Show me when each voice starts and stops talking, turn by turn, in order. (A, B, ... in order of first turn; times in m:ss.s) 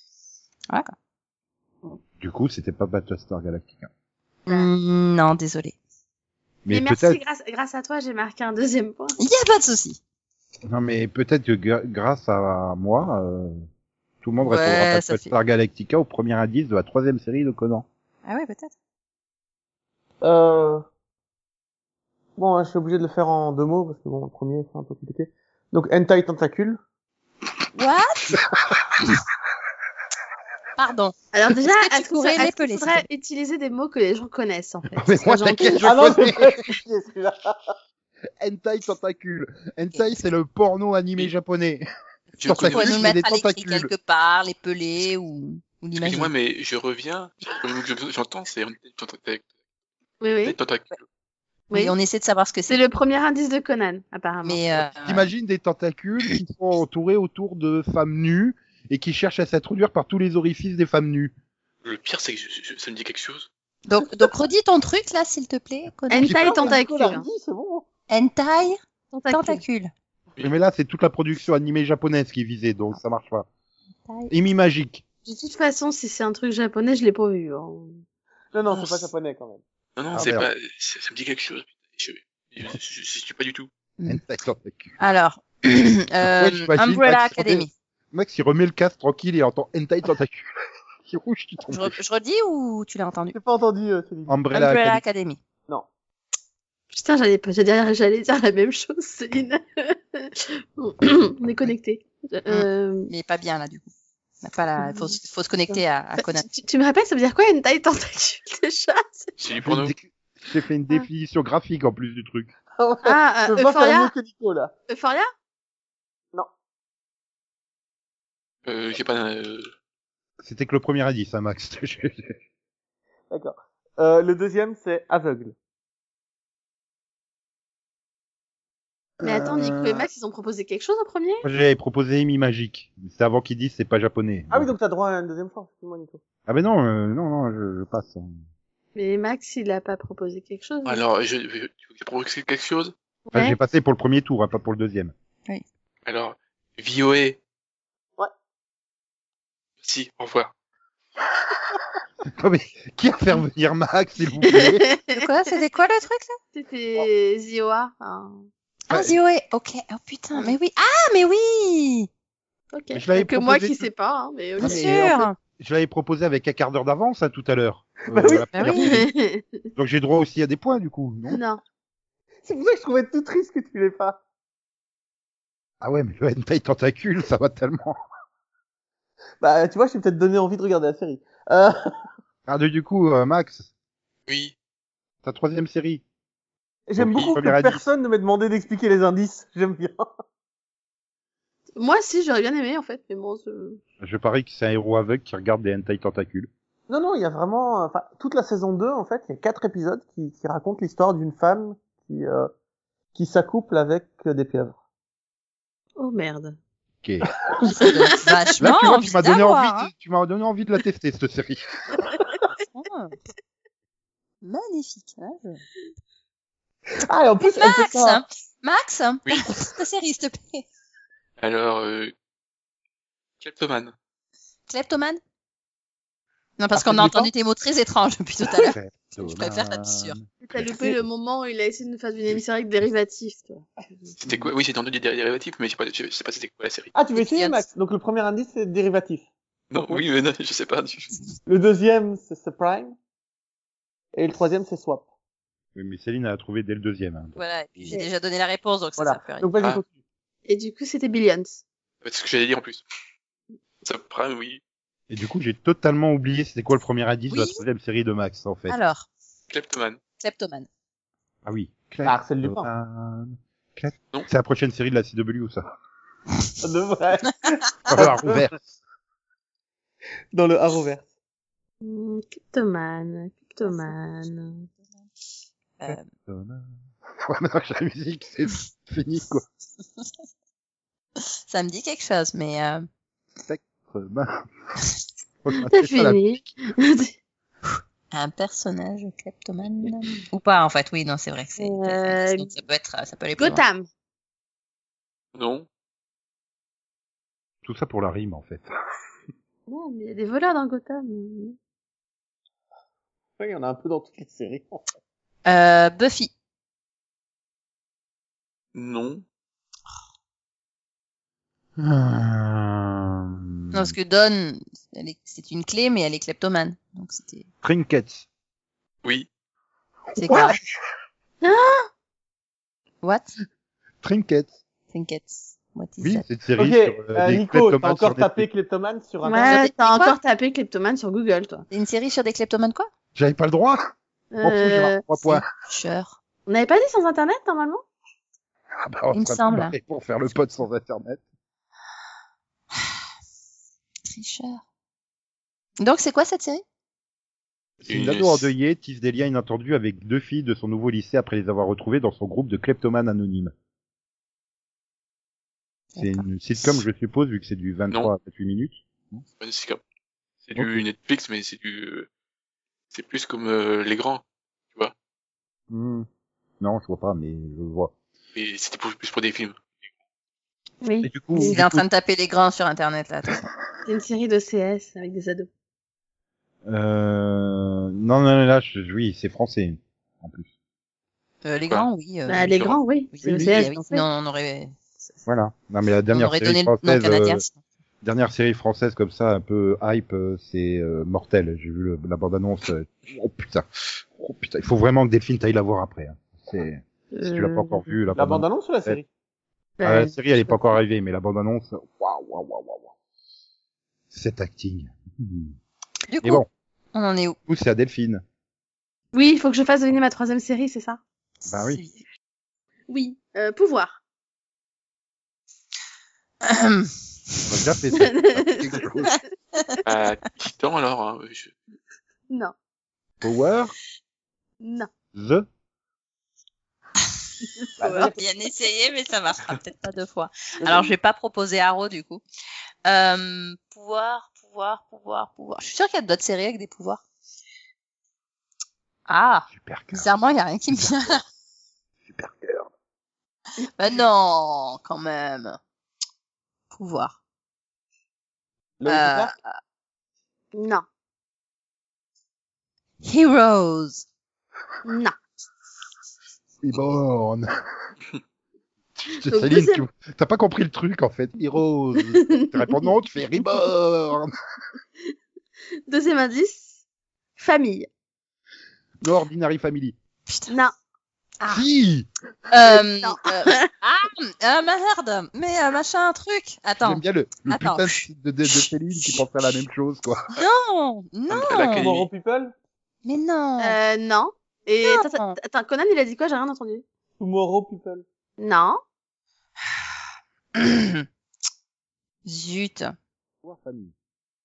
0:02.2-0:03.9 A
0:04.4-0:05.8 B
0:06.6-0:07.2 A
0:06.7-0:09.2 C
0:09.2-0:10.0 B
0:10.7-0:13.6 A
0:14.2-0:17.8 A
0:14.4-0:15.3 B
0:18.2-0:18.7 B
0:20.2-0:20.8 D
0:22.4-0:26.8 D
0:27.7-0:28.4 B
0:30.8-0:33.0 B
0:31.3-0:35.9 C
0:35.0-0:36.6 A
0:35.8-0:37.6 D
0:38.4-0:41.8 A
0:42.4-0:43.1 E
0:42.4-0:43.9 A
0:42.4-0:46.3 B
0:46.0-0:49.4 E
0:50.2-0:50.6 C
0:50.4-0:51.0 E
0:51.7-0:52.8 B
0:52.7-0:54.9 C
0:54.4-0:55.3 B
0:55.0-1:01.3 A
1:01.8-1:03.5 E
1:03.8-1:06.4 B
1:06.1-1:07.2 C
1:06.2-1:06.7 A
1:06.2-1:07.8 D
1:08.1-1:08.8 B
1:09.1-1:09.6 C
1:09.3-1:09.9 B
1:10.4-1:13.5 A
1:14.3-1:15.0 A
1:15.2-1:18.0 C
1:18.5-1:19.6 D
1:20.0-1:23.7 E
1:20.1-1:20.5 A
1:24.0-1:24.9 A
1:25.0-1:27.7 B
1:26.2-1:30.5 A
1:31.0-1:32.0 A
1:31.7-1:33.4 B
1:33.3-1:34.4 D
1:34.3-1:35.0 A
1:34.5-1:35.4 B
1:36.9-1:43.1 C
1:42.5-1:43.9 B
1:44.4-1:46.4 B
1:44.8-1:45.2 C
1:45.7-1:49.3 C
1:49.4-1:49.9 E
1:49.6-1:52.5 A
1:52.8-1:54.7 D
1:53.0-1:54.1 C
1:54.9-1:55.3 C
1:58.6-1:59.7 E
2:00.4-2:02.3 A
2:03.3-2:05.5 D
2:09.2-2:10.0 A
2:09.2-2:11.4 C
2:11.4-2:14.7 A
2:14.5-2:16.2 D
2:16.4-2:18.3 A
2:18.9-2:21.0 C
2:20.8-2:22.9 E
2:23.3-2:23.6 C
2:23.3-2:25.1 A
2:26.0-2:27.4 E
2:29.8-2:30.5 E
2:32.4-2:34.8 A
2:34.5-2:35.5 C
2:35.1-2:36.4 B
2:36.5-2:38.4 C
2:38.9-2:42.1 B
2:38.9-2:39.2 A
2:42.7-2:45.2 C
2:42.9-2:43.9 A
2:44.6-2:45.3 B
2:44.6-2:49.1 A
2:48.1-2:48.5 D
2:48.5-2:49.0 B
2:48.6-2:49.6 C
2:49.7-2:51.4 A
2:51.3-2:51.6 C
2:52.4-2:54.2 D
2:55.8-2:58.0 A
2:59.4-3:01.9 D
3:02.4-3:03.7 A
3:04.3-3:04.5 E
3:05.2-3:06.0 A
3:06.9-3:10.0 D
3:07.0-3:07.8 A
3:11.8-3:13.8 C
3:14.0-3:16.5 A
3:16.9-3:22.5 D
3:23.1-3:24.8 D
3:26.0-3:26.6 C
3:27.0-3:27.3 A
3:27.4-3:27.9 D
3:27.7-3:29.9 B
3:27.8-3:28.4 C
3:28.6-3:32.1 A
3:32.7-3:33.2 B
3:34.4-3:35.6 B
3:37.0-3:38.2 D
3:37.4-3:40.6 B
3:39.2-3:39.5 E
3:41.4-3:42.1 E
3:43.4-3:43.9 E
3:44.7-3:45.2 B
3:46.6-3:50.2 B
3:46.7-3:47.3 A
3:48.5-3:50.3 A
3:50.4-3:54.1 C
3:54.2-3:56.9 E
3:56.9-3:59.3 D
3:57.1-3:57.6 B
3:59.7-4:01.2 E
3:59.8-4:00.0 D
4:01.4-4:03.0 D
4:04.1-4:05.0 D
4:05.7-4:07.9 A
4:07.4-4:09.5 B
4:09.0-4:09.9 D
4:10.4-4:11.6 C
4:12.0-4:12.8 E
4:13.8-4:14.6 E
4:15.1-4:18.8 A
4:17.3-4:17.6 B
4:18.7-4:19.1 B
4:19.5-4:20.0 E
4:20.2-4:20.7 B
4:21.4-4:25.6 A
4:22.0-4:22.7 D
4:26.6-4:28.4 D
4:27.9-4:28.7 A
4:30.3-4:31.1 D
4:31.8-4:34.7 C
4:35.8-4:36.1 B
4:36.3-4:36.7 A
4:37.2-4:39.4 A
4:41.5-4:42.9 B
4:43.5-4:44.4 A
4:45.4-4:46.5 A
4:45.7-4:47.1 C
4:48.1-4:53.6 B
4:51.6-4:52.5 C
4:53.4-4:53.9 C
4:55.3-4:55.7 E
4:57.6-4:58.7 A
4:59.7-5:01.6 C
5:03.4-5:04.8 D
5:05.4-5:06.3 B
5:08.7-5:09.2 E
5:11.8-5:14.0 A
5:13.7-5:17.4 B
5:17.6-5:18.2 A
5:20.2-5:20.6 B
5:20.3-5:20.6 A
5:21.4-5:21.9 C
5:24.0-5:24.6 A
5:24.9-5:26.2 B
5:26.0-5:28.5 A
5:26.6-5:29.6 D
5:29.2-5:31.6 C
5:29.4-5:30.2 B
5:31.7-5:32.9 B
5:33.1-5:33.8 A
5:34.3-5:35.0 C
5:34.4-5:35.4 A
5:35.2-5:36.2 B
5:36.4-5:37.8 C
5:38.8-5:41.2 A
5:39.1-5:39.7 B
5:44.1-5:44.6 B
5:45.8-5:46.6 B
5:47.8-5:53.5 A
5:47.8-5:48.5 E
5:55.9-5:56.8 B
5:56.0-5:59.2 A
5:59.4-5:59.8 E
6:00.4-6:02.1 E
6:00.5-6:00.8 A
6:02.9-6:04.2 E
6:05.7-6:06.1 A
6:06.6-6:07.9 A
6:08.3-6:09.6 E
6:10.8-6:11.6 C
6:11.0-6:11.8 A
6:11.4-6:13.5 B
6:13.8-6:15.5 C
6:16.6-6:20.5 A
6:21.4-6:25.2 B
6:22.3-6:24.0 C
6:23.2-6:23.7 A
6:25.2-6:27.4 A
6:26.1-6:27.6 B
6:28.0-6:39.0 A
6:37.1-6:37.9 C
6:38.1-6:39.0 D
6:39.8-6:40.6 C
6:39.8-6:42.9 A
6:44.1-6:45.6 A
6:46.1-6:47.4 B
6:47.5-6:48.2 A
6:49.1-6:51.0 C
6:51.5-6:51.8 A
6:51.5-6:52.0 B
6:52.9-6:54.0 C
6:56.4-6:57.6 B
6:57.4-6:59.2 A
6:58.0-6:59.1 C
6:59.8-7:01.6 E
7:03.2-7:03.7 A
7:04.6-7:04.9 C
7:05.1-7:05.5 A
7:07.8-7:08.2 D
7:07.8-7:08.1 C
7:07.8-7:12.2 B
7:12.8-7:17.0 B
7:19.1-7:21.2 B
7:19.5-7:20.1 A
7:20.7-7:21.2 A
7:22.0-7:22.7 A
7:23.8-7:25.6 B
7:26.7-7:27.1 B
7:28.8-7:29.3 D
7:28.9-7:29.4 B
7:30.5-7:30.8 C
7:33.0-7:34.0 B
7:34.8-7:35.1 C
7:36.6-7:37.5 A
7:39.0-7:44.3 A
7:39.3-7:39.8 C
7:42.1-7:42.8 C
7:45.9-7:46.8 C
7:47.4-7:47.9 C
7:49.0-7:50.0 A
7:50.5-7:50.7 C
7:51.4-7:51.6 B
7:51.5-7:52.1 A
7:52.5-7:58.6 B
7:52.7-7:53.7 C
7:56.8-8:00.3 A
8:00.4-8:01.9 B
8:01.3-8:02.1 E
8:01.8-8:02.5 D
8:03.0-8:03.8 B
8:03.6-8:06.8 C
8:04.8-8:05.4 B
8:07.2-8:08.0 D
8:08.4-8:08.8 C
8:10.6-8:11.0 B
8:12.2-8:12.9 B
8:13.4-8:13.9 A